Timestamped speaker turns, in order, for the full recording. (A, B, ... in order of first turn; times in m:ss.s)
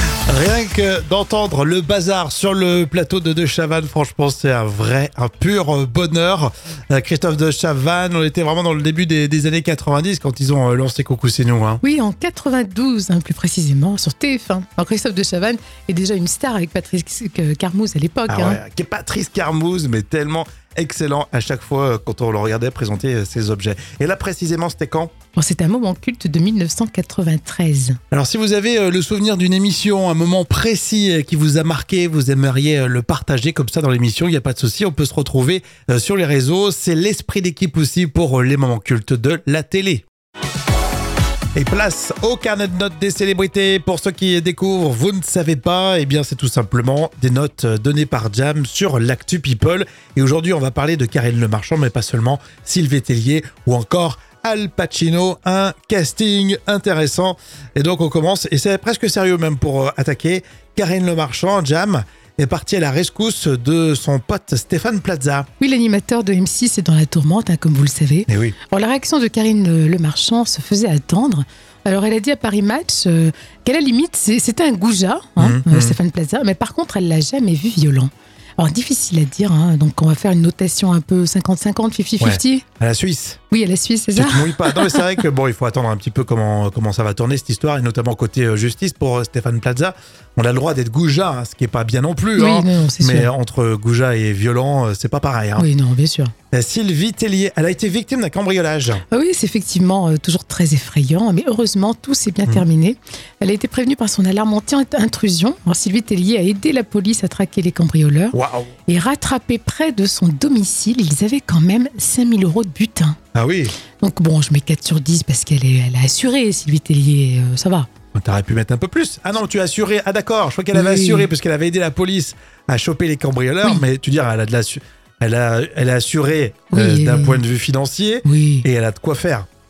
0:00.3-0:11.8 A
0:11.8-0:18.6 B
0:18.3-0:25.1 A
0:25.4-0:28.0 B
0:28.1-0:40.0 A
0:41.6-1:05.5 A
1:05.6-1:22.6 B
1:08.3-1:08.6 A
1:15.4-1:16.0 A
1:22.2-1:23.4 A
1:23.5-1:25.0 B
1:24.2-1:35.7 A
1:32.4-1:33.3 B
1:35.6-1:36.3 B
1:36.5-1:39.0 A
1:39.1-1:48.4 B
1:48.3-1:48.7 A
1:48.9-1:53.2 B
1:53.4-1:53.8 A
1:54.0-1:57.9 B
1:58.1-2:09.5 A
2:00.7-2:01.3 B
2:06.7-2:07.4 B
2:08.2-2:08.7 B